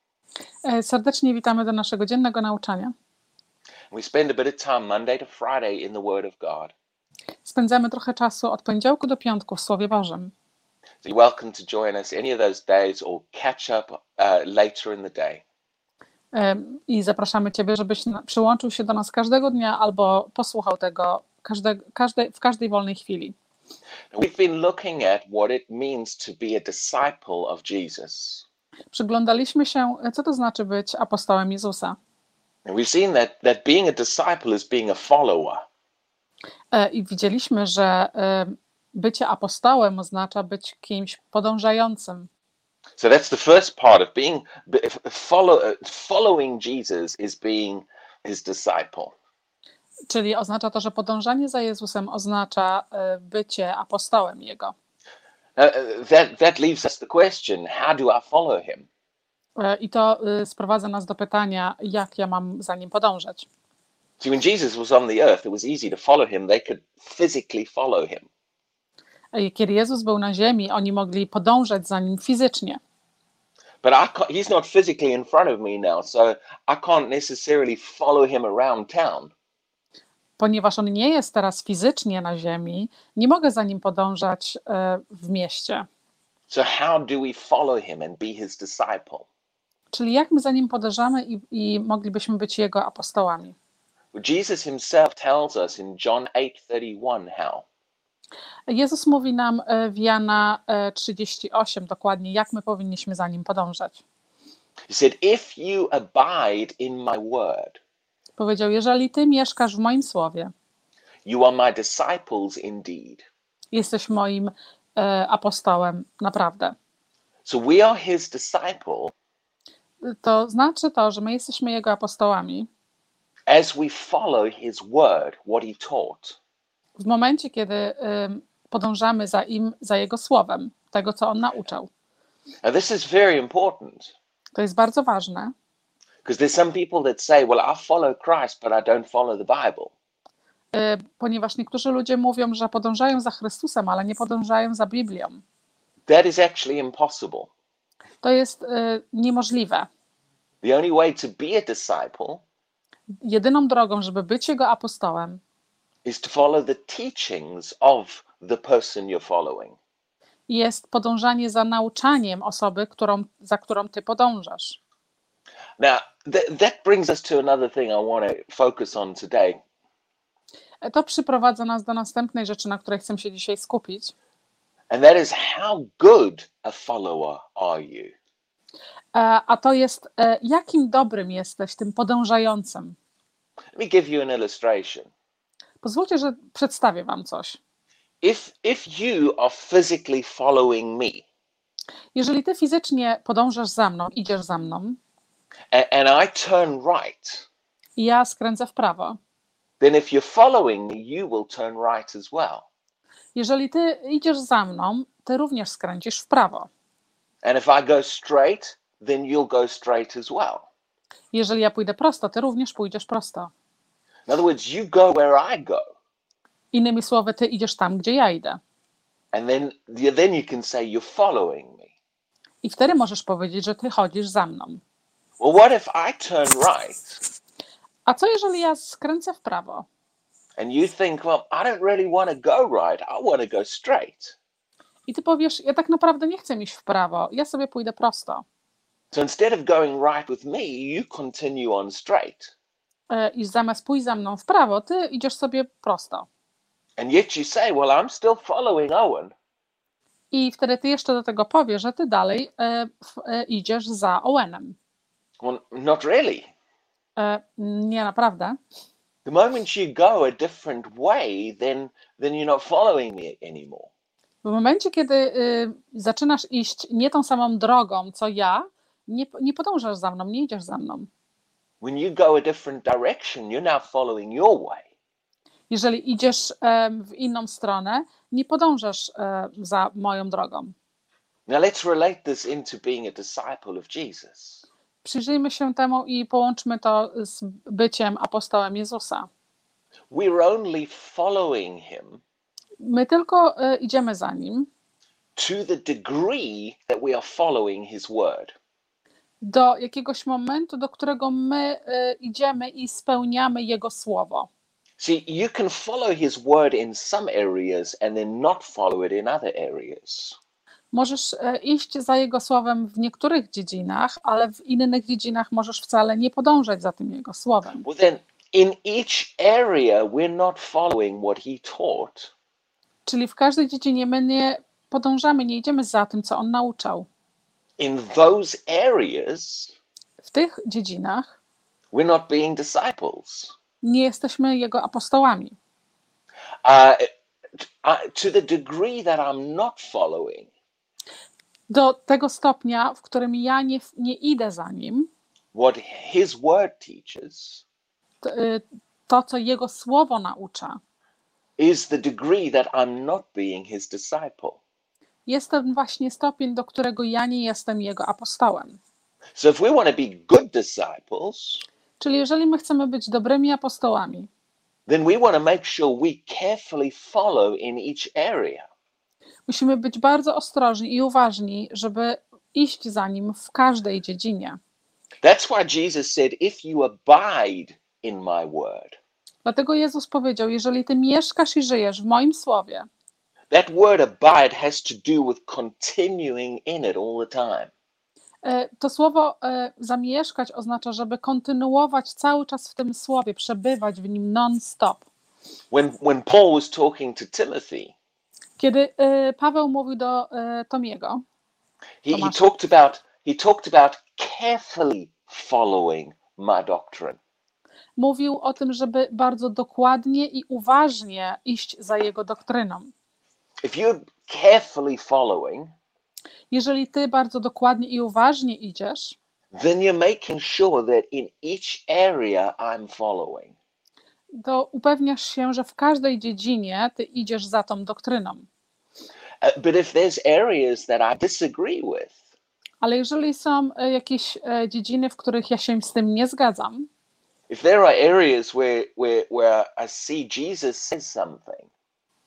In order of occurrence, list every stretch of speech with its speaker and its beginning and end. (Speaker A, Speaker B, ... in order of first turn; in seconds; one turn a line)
Speaker A: 0.6-2.9
Speaker B: 3.9-6.7
Speaker A: 7.4-10.3
Speaker B: 11.0-15.4
Speaker A: 16.3-23.3
Speaker B: 24.1-28.4
Speaker A: 28.9-32.0
Speaker B: 32.6-35.6
Speaker A: 36.7-42.3
Speaker B: 43.0-49.1
Speaker A: 50.1-54.7
Speaker B: 55.5-58.9
Speaker A: 59.6-63.5
Speaker B: 64.2-68.3
Speaker A: 69.3-72.8
Speaker B: 73.8-79.3
Speaker A: 80.4-85.9
Speaker B: 86.5-89.3
Speaker A: 89.9-93.5
Speaker B: 94.1-97.7
Speaker A: 98.7-104.0
Speaker B: 104.9-107.8
Speaker A: 108.4-110.5
Speaker B: 111.2-113.3
Speaker A: 113.7-116.8
Speaker B: 117.4-119.1
Speaker A: 120.0-122.7
Speaker B: 123.5-126.4
Speaker A: 127.0-131.9
Speaker B: 132.6-134.1
Speaker A: 134.5-135.5
Speaker B: 136.2-139.9
Speaker A: 140.7-145.4
Speaker B: 146.1-147.5
Speaker A: 148.2-149.9
Speaker B: 150.6-152.4
Speaker A: 153.2-155.4
Speaker B: 156.0-159.8
Speaker A: 160.5-164.8
Speaker B: 165.8-169.6
Speaker A: 170.8-174.1
Speaker B: 174.9-178.1
Speaker A: 179.1-182.9
Speaker B: 183.8-185.1
Speaker A: 185.8-187.6
Speaker B: 188.2-191.2
Speaker A: 192.1-195.0
Speaker B: 195.7-197.4
Speaker A: 198.0-199.2
Speaker B: 199.8-202.7
Speaker A: 203.3-206.7
Speaker B: 207.4-210.7
Speaker A: 211.3-213.5
Speaker B: 214.3-215.8
Speaker A: 216.7-218.6
Speaker B: 219.3-221.9
Speaker A: 222.6-224.8
Speaker B: 225.4-227.2
Speaker A: 228.1-229.9
Speaker B: 230.6-234.4
Speaker A: 235.1-238.4
Speaker B: 239.1-242.5
Speaker A: 243.1-246.3
Speaker B: 247.0-249.3
Speaker A: 250.3-254.8
Speaker B: 255.4-256.5
Speaker A: 257.2-258.6
Speaker B: 259.2-263.9
Speaker A: 264.4-271.1
Speaker B: 271.8-274.9
Speaker A: 275.7-280.7
Speaker B: 281.5-284.6
Speaker A: 285.0-289.3
Speaker B: 290.1-292.2
Speaker A: 292.8-294.7
Speaker B: 295.4-298.5
Speaker A: 299.4-304.5
Speaker B: 305.0-310.4
Speaker A: 310.9-317.8
Speaker B: 317.8-322.3
Speaker A: 323.1-327.1
Speaker B: 327.8-329.7
Speaker A: 330.2-331.3
Speaker B: 331.9-333.5
Speaker A: 333.8-335.6
Speaker B: 336.6-340.5
Speaker A: 341.7-345.1
Speaker B: 345.5-347.6
Speaker A: 348.2-350.8
Speaker B: 351.6-354.6
Speaker A: 355.2-358.8
Speaker B: 359.4-361.6
Speaker A: 362.0-364.3
Speaker B: 364.9-368.7
Speaker A: 369.5-374.6
Speaker B: 375.2-379.0
Speaker A: 379.4-382.9
Speaker B: 383.5-387.7
Speaker A: 388.4-395.1
Speaker B: 395.7-397.9
Speaker A: 398.6-401.2
Speaker B: 402.0-407.2
Speaker A: 402.1-402.4
Speaker A: 408.0-412.9
Speaker B: 413.6-415.7
Speaker A: 416.5-419.1
Speaker B: 419.5-423.5
Speaker A: 424.4-428.5
Speaker B: 429.4-432.2
Speaker A: 432.8-436.9
Speaker B: 437.5-441.7